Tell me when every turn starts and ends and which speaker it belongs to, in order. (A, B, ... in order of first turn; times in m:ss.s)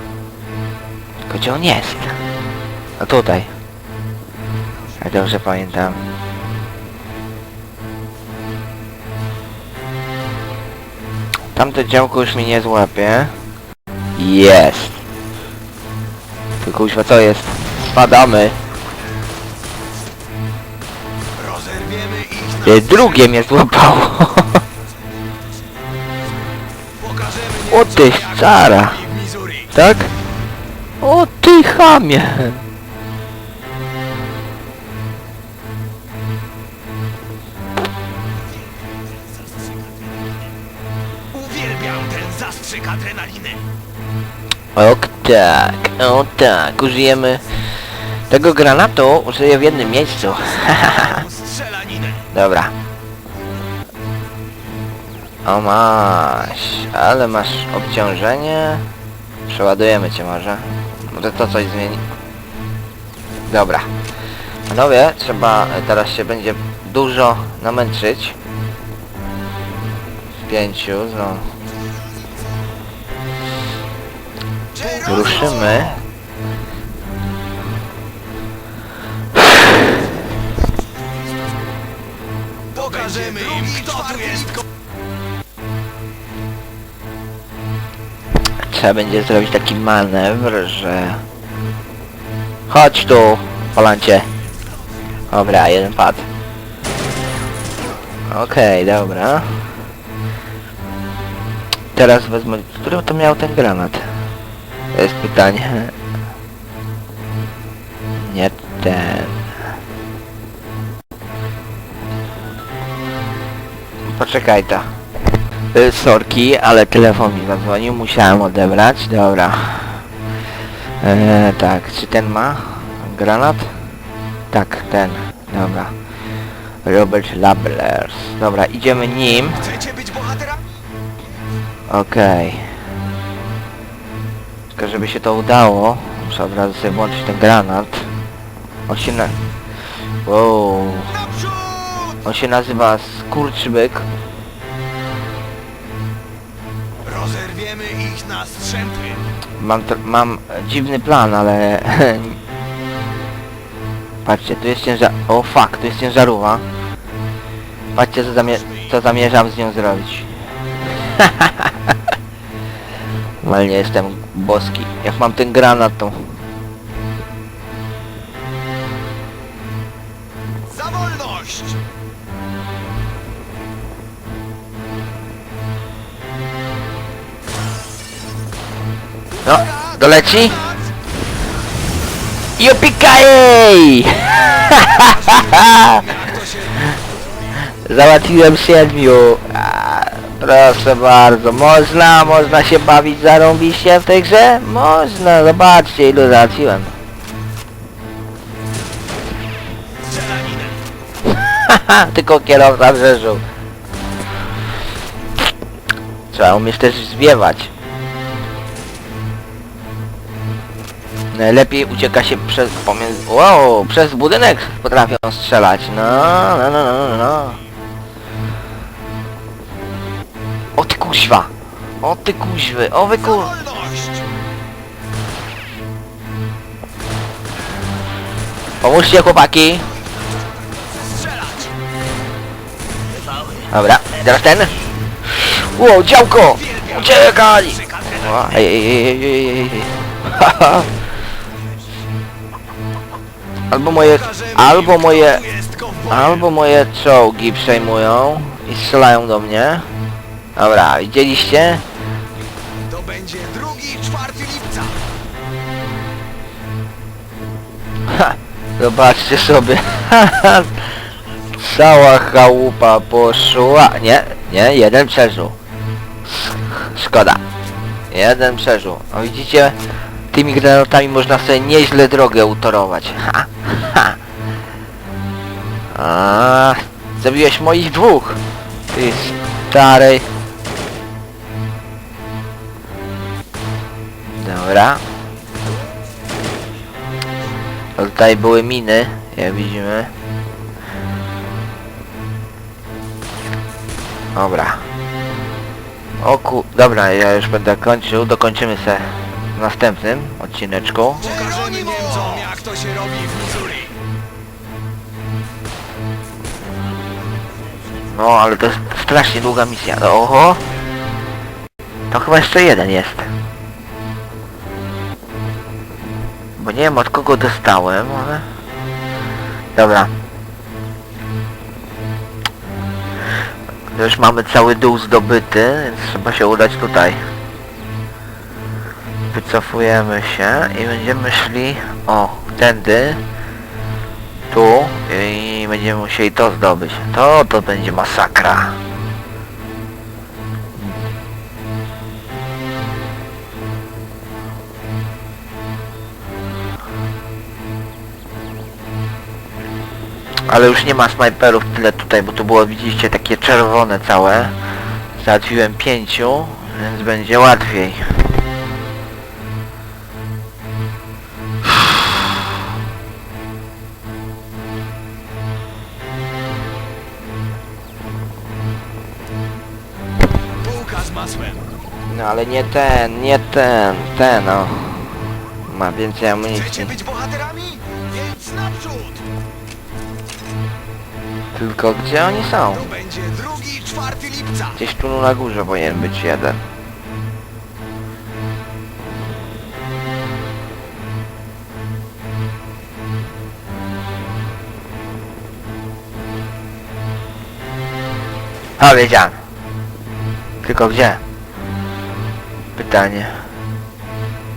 0:01.3-0:02.3 A
0:03.0-0:03.6 A
0:05.0-0:06.1 A
0:11.6-0:13.4 A
0:14.2-0:15.0 A
0:16.6-0:18.6 A
0:21.4-0:22.6 B
0:22.6-0:24.6 A
0:27.1-0:27.7 B
0:27.7-0:29.0 A
0:29.1-0:29.6 B
0:29.7-0:30.1 A
0:31.0-0:32.6 A
0:41.3-0:43.6 B
0:44.8-0:51.2 A
0:51.1-0:52.2 B
0:52.3-0:52.7 A
0:55.4-0:58.8 A
0:59.5-1:02.0 A
1:03.5-1:03.9 A
1:04.7-1:08.4 A
1:10.4-1:11.5 A
1:14.9-1:16.0 A
1:22.8-1:24.6 B
1:28.6-1:31.2 A
1:32.7-1:34.3 A
1:35.3-1:36.3 A
1:38.3-1:39.7 A
1:42.0-1:44.1 A
1:44.9-1:45.9 A
1:48.2-1:49.5 A
1:54.1-1:55.0 A
1:55.7-2:00.1 A
2:01.0-2:04.0 A
2:04.5-2:05.9 A
2:06.8-2:09.8 A
2:09.8-2:10.6 B
2:11.9-2:12.8 A
2:14.8-2:18.2 A
2:18.9-2:19.4 A
2:20.2-2:21.2 A
2:21.2-2:22.1 B
2:22.2-2:24.1 A
2:27.0-2:29.2 B
2:29.6-2:32.4 A
2:34.2-2:36.6 A
2:37.9-2:40.4 A
2:41.0-2:41.7 A
2:43.4-2:46.4 A
2:50.8-2:51.8 B
2:59.4-3:00.7 A
3:02.6-3:06.1 A
3:04.7-3:06.7 B
3:07.7-3:16.9 A
3:20.1-3:20.8 B
3:21.5-3:23.4 A
3:26.3-3:27.7 A
3:31.3-3:37.6 A
3:40.8-3:41.5 A
3:42.0-3:43.6 A
3:43.5-3:44.2 B
3:48.8-3:49.9 A
3:51.2-3:51.7 B
3:53.7-4:00.9 A
4:03.7-4:05.4 A
4:05.3-4:06.1 B
4:06.1-4:09.9 A
4:10.6-4:11.8 A
4:12.9-4:15.0 B
4:18.1-4:20.9 A
4:21.5-4:25.6 A
4:26.2-4:27.4 A
4:28.1-4:29.8 A
4:30.3-4:34.2 A
4:35.9-4:40.3 A
4:44.4-4:45.0 A
4:48.0-4:50.1 A
4:54.4-4:54.9 A
4:56.2-5:01.4 A
5:01.3-5:03.9 B
5:08.1-5:10.6 A
5:12.1-5:13.3 A
5:16.6-5:18.5 A
5:19.7-5:20.1 A
5:23.9-5:27.2 A
5:29.3-5:33.2 A
5:34.5-5:38.8 A
5:50.5-5:58.4 A
6:10.6-6:11.6 B
6:12.1-6:17.0 A
6:16.8-6:19.2 B
6:21.5-6:22.9 A
6:22.9-6:24.6 B
6:24.8-6:26.6 A
6:38.8-6:39.4 A
6:40.6-6:41.2 A
6:42.8-6:43.5 A